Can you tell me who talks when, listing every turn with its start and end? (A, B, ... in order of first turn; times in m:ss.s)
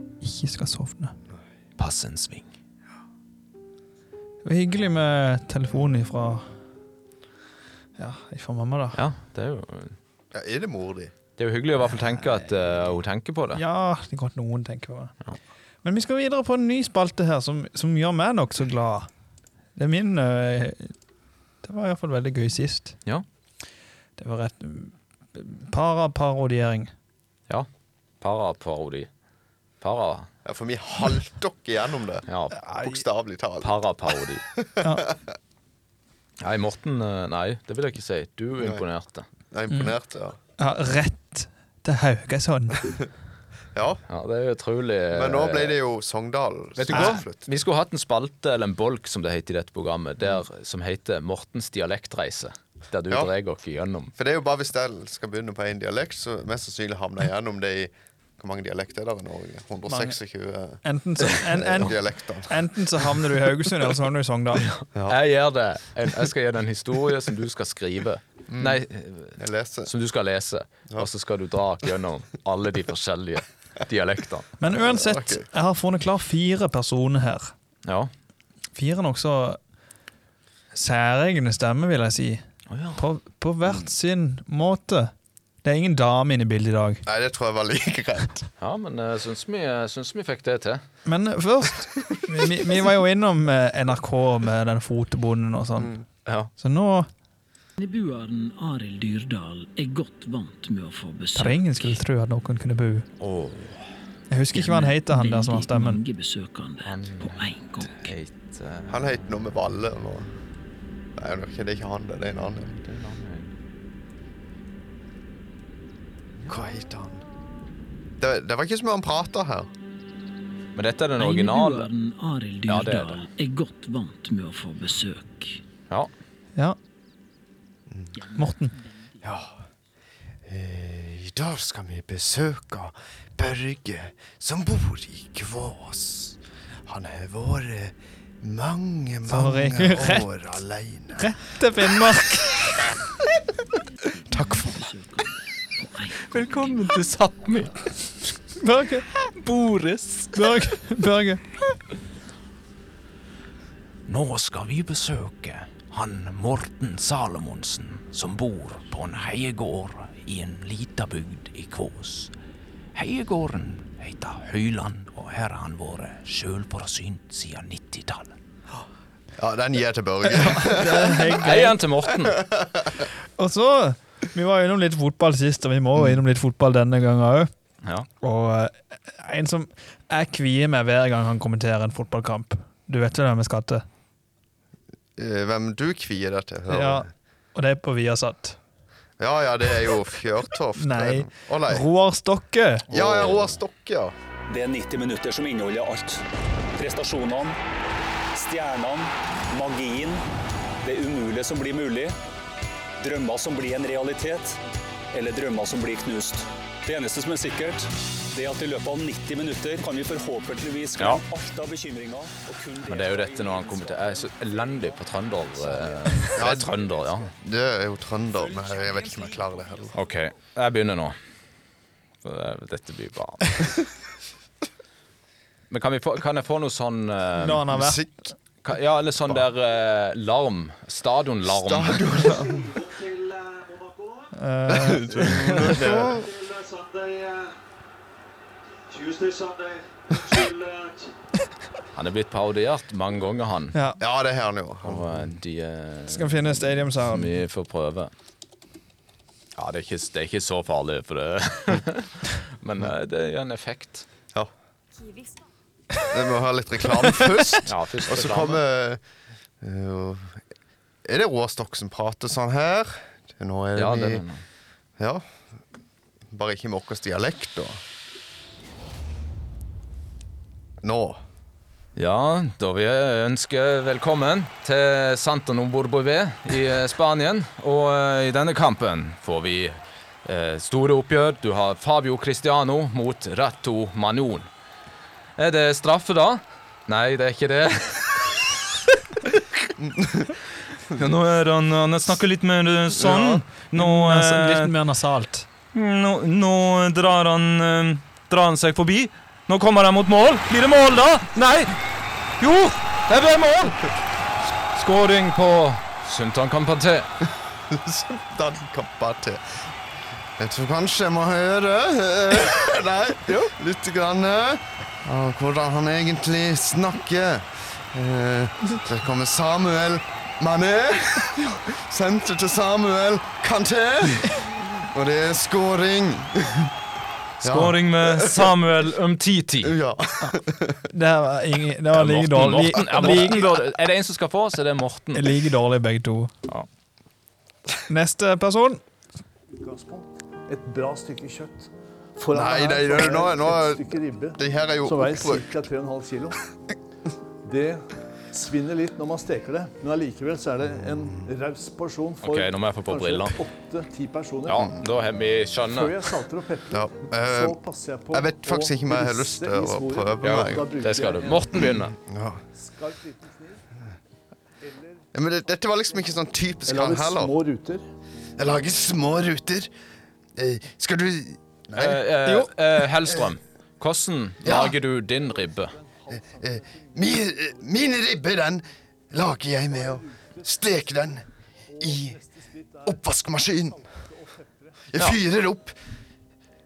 0:00.2-0:01.1 A
0:01.8-0:02.5 B
0:04.4-0:06.4 A
0:08.0-0:09.0 A
0:08.9-0:10.0 B
0:10.3-0:11.1 C
0:11.4-0:13.6 B
0:13.5-0:15.1 A
0:15.8-0:19.1 A
0:19.8-0:20.9 A
0:21.6-0:23.0 A
0:24.2-0:26.9 A
0:28.2-0:29.1 B
0:29.8-0:30.3 B
0:30.4-0:32.2 C
0:32.3-0:32.5 B
0:32.6-0:33.0 A
0:32.8-0:33.8 C
0:33.6-0:34.4 B
0:34.6-0:35.3 C
0:36.4-0:39.2 B
0:38.6-0:38.8 C
0:39.5-0:40.4 C
0:39.7-0:39.9 A
0:40.6-0:43.0 A
0:43.7-0:44.0 C
0:44.1-0:45.8 B
0:45.1-0:47.5 C
0:46.8-0:54.1 B
0:54.1-1:02.6 C
0:59.9-1:00.2 A
1:00.8-1:04.7 A
1:04.8-1:14.5 B
1:08.5-1:08.8 C
1:09.4-1:09.9 C
1:14.6-1:17.5 A
1:14.7-1:15.5 C
1:17.8-1:18.1 B
1:18.7-1:19.6 A
1:20.7-1:22.4 A
1:22.7-1:23.0 B
1:23.0-1:25.1 A
1:25.6-1:27.0 A
1:27.0-1:28.5 C
1:28.6-1:30.8 B
1:31.0-1:35.9 A
1:35.8-1:36.0 C
1:36.2-1:36.5 B
1:36.6-1:37.1 A
1:37.8-1:42.0 D
1:41.3-1:43.1 A
1:43.2-1:43.8 B
1:44.3-1:46.0 A
1:44.5-1:48.1 D
1:46.8-1:49.2 B
1:48.9-1:50.3 C
1:51.2-1:52.8 C
1:52.6-1:53.5 B
1:56.5-1:57.2 C
1:58.2-1:59.7 C
2:00.7-2:01.9 B
2:01.2-2:05.6 D
2:02.7-2:03.3 B
2:07.9-2:08.1 C
2:08.1-2:09.3 D
2:08.4-2:08.7 A
2:09.2-2:09.6 C
2:10.4-2:21.3 C
2:19.3-2:20.3 A
2:21.2-2:22.8 A
2:24.0-2:27.0 D
2:24.3-2:24.8 C
2:26.3-2:27.9 B
2:28.6-2:29.0 A
2:29.2-2:30.4 B
2:30.3-2:31.4 A
2:34.1-2:42.3 B
2:42.9-2:48.3 B
2:49.4-2:51.4 C
2:50.3-2:51.8 A
2:51.4-2:52.4 B
2:52.2-2:53.0 C
2:53.4-2:57.5 A
2:58.2-3:03.8 A
3:05.2-3:07.1 C
3:06.7-3:08.6 A
3:09.2-3:11.9 C
3:10.8-3:12.9 A
3:12.9-3:14.1 C
3:12.9-3:13.6 B
3:14.5-3:16.2 E
3:16.8-3:17.6 E
3:18.3-3:20.2 E
3:20.8-3:22.2 E
3:23.0-3:24.6 E
3:25.1-3:34.5 E
3:31.0-3:31.2 B
3:32.8-3:37.3 B
3:36.3-3:40.0 C
3:39.9-3:41.1 B
3:42.2-3:43.7 B
3:45.7-3:47.6 B
3:47.4-3:48.1 A
3:47.7-3:48.1 C
3:48.6-3:52.0 B
3:51.4-3:52.9 C
3:54.3-3:55.7 A
3:54.7-3:56.3 C
3:55.4-3:56.2 B
4:01.9-4:03.8 B
4:03.7-4:04.0 A
4:04.0-4:05.2 C
4:04.8-4:08.1 B
4:06.1-4:07.4 A
4:09.6-4:14.1 B
4:16.0-4:19.0 C
4:17.6-4:18.6 B
4:19.6-4:20.4 C
4:21.0-4:24.2 C
4:23.8-4:24.4 B
4:25.0-4:25.2 C
4:26.3-4:27.8 C
4:30.8-4:31.2 C
4:32.0-4:44.5 B
4:45.4-4:48.4 B
4:49.8-4:50.3 C
4:50.9-4:54.7 B
4:52.9-4:53.4 C
4:53.7-4:55.5 A
4:55.7-5:01.8 B
5:02.4-5:03.8 B
5:04.7-5:07.1 B
5:07.7-5:09.6 C
5:10.4-5:26.7 C
5:27.4-5:28.6 C
5:27.4-5:29.7 B
5:29.6-5:30.8 C
5:30.9-5:33.5 A
5:31.9-5:35.3 B
5:35.1-5:36.3 A
5:37.9-5:38.8 A
5:39.6-5:46.4 F
5:42.3-5:45.5 C
5:47.4-5:54.7 F
5:50.9-5:51.3 C
5:52.2-5:53.4 B
5:54.4-5:55.9 B
5:55.6-6:01.6 F
5:56.7-5:57.6 C
5:58.1-6:00.7 C
6:00.2-6:01.9 B
6:01.7-6:02.4 C
6:02.5-6:03.6 F
6:04.6-6:05.1 F
6:05.1-6:07.4 C
6:05.7-6:06.0 F
6:06.6-6:07.8 F
6:08.4-6:09.7 C
6:10.4-6:12.5 C
6:11.7-6:15.7 B
6:14.4-6:14.8 C
6:14.6-6:18.0 F
6:16.4-6:21.2 C
6:19.4-6:24.9 F
6:21.8-6:22.2 C
6:22.8-6:23.8 C
6:24.9-6:25.8 C